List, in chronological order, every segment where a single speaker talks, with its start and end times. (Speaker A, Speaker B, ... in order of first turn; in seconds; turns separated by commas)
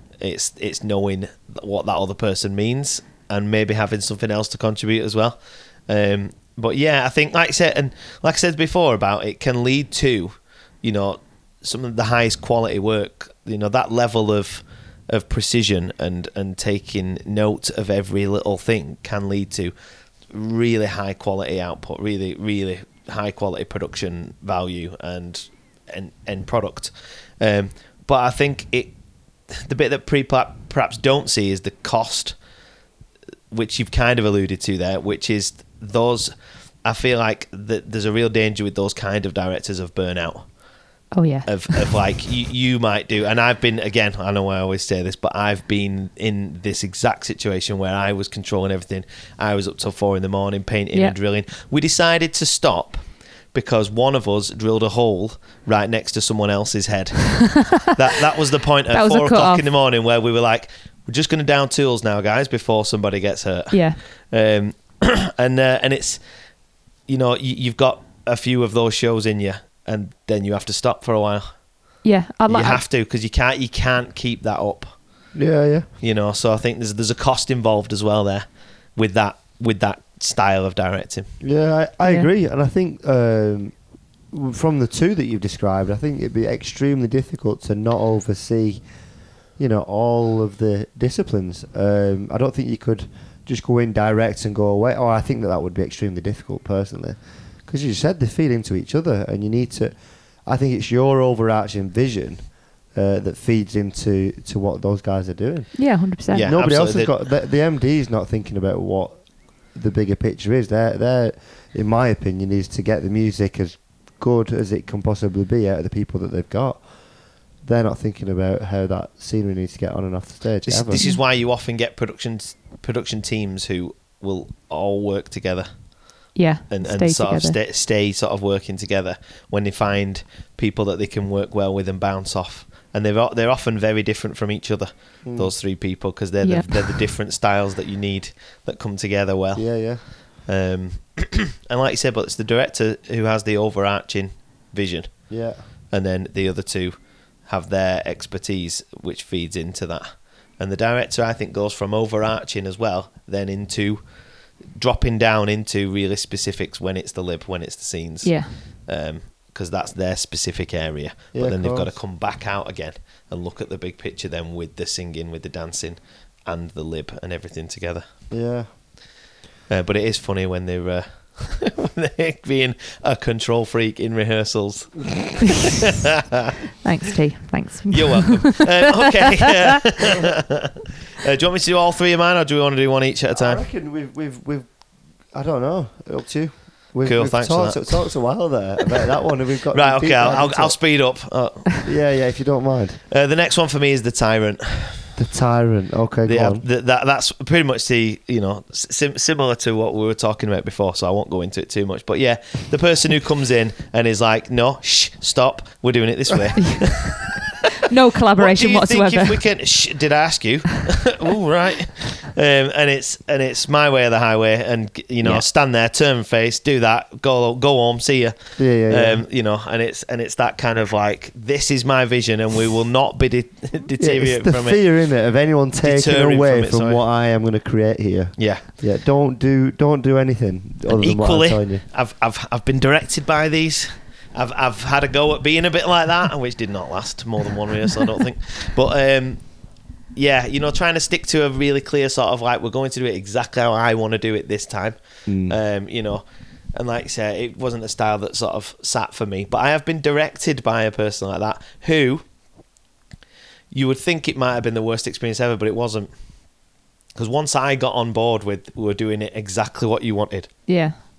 Speaker A: 0.2-19.7, Speaker A: 20.3-28.9, Speaker A: 29.5-32.3, Speaker A: 33.5-36.3, Speaker A: 36.8-40.4, Speaker B: 41.1-41.8, Speaker A: 41.5-66.2, Speaker B: 57.5-57.9, Speaker B: 58.9-59.7, Speaker B: 63.7-64.0, Speaker A: 67.1-71.5, Speaker B: 72.0-72.8, Speaker A: 72.5-74.9, Speaker C: 75.3-75.9, Speaker A: 76.0-81.3, Speaker C: 81.4-83.7, Speaker C: 84.3-88.8, Speaker C: 89.6-116.8, Speaker B: 105.8-106.5, Speaker A: 106.3-107.2, Speaker C: 117.6-121.0, Speaker A: 120.7-125.7, Speaker B: 120.9-121.2, Speaker B: 126.3-127.6, Speaker A: 126.7-145.3, Speaker C: 135.2-135.5, Speaker B: 136.4-136.9, Speaker C: 139.5-140.0, Speaker C: 145.3-145.6, Speaker A: 145.9-154.0, Speaker A: 154.7-168.0, Speaker B: 158.2-158.5, Speaker C: 161.3-161.9, Speaker C: 168.3-168.7, Speaker A: 169.7-176.5, Speaker B: 176.8-178.8, Speaker A: 177.9-183.6, Speaker C: 183.3-184.7, Speaker C: 185.3-190.8, Speaker A: 187.0-188.1, Speaker A: 189.7-191.8, Speaker C: 191.8-193.0, Speaker A: 193.1-195.1, Speaker C: 195.2-196.6, Speaker A: 196.2-207.7, Speaker B: 206.6-206.8, Speaker B: 207.8-209.4, Speaker A: 208.4-224.8, Speaker C: 218.6-219.2, Speaker C: 224.0-231.8, Speaker A: 225.8-227.0, Speaker A: 228.4-228.6, Speaker A: 230.9-239.4, Speaker A: 240.1-252.2, Speaker C: 245.3-245.6, Speaker A: 253.7-256.1, Speaker A: 257.1-260.5, Speaker B: 260.7-260.9